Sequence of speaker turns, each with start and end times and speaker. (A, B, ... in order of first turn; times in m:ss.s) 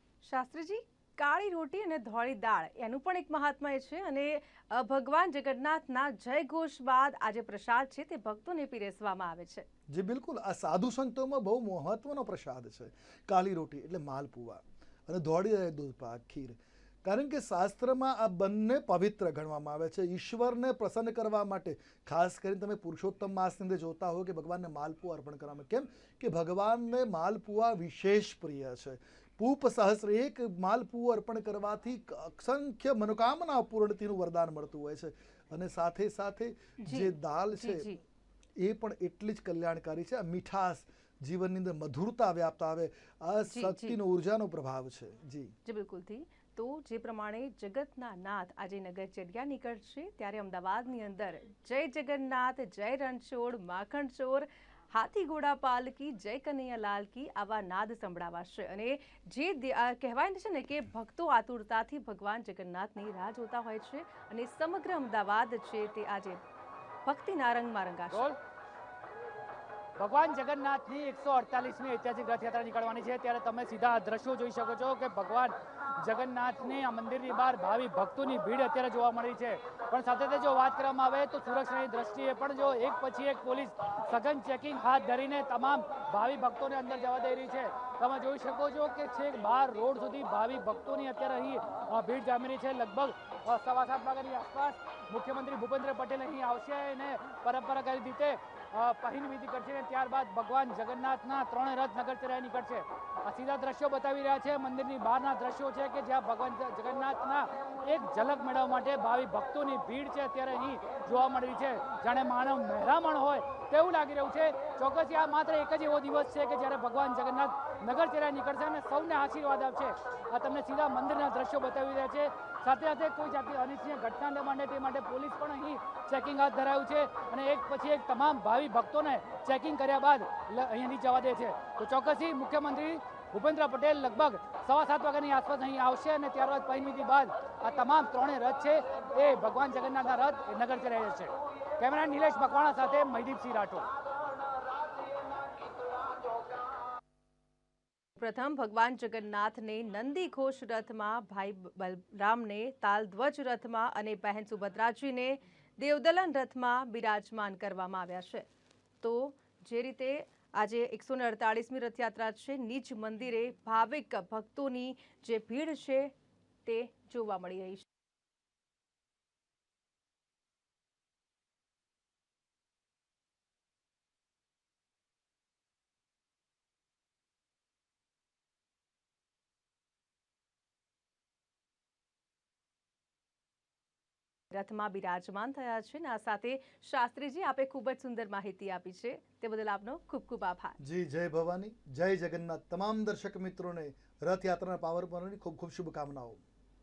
0:00.2-0:09.6 A
0:09.9-0:37.9 B
0:36.8-0:38.0 A
0:38.6-0:45.5 B
0:43.5-0:44.0 A
0:45.6-1:06.4 A
1:07.0-1:08.3 A
1:10.0-2:23.9 C
2:28.2-2:38.5 A
2:39.0-2:46.1 A
2:46.6-2:47.9 A
3:04.5-3:10.8 A
3:10.8-3:16.4 B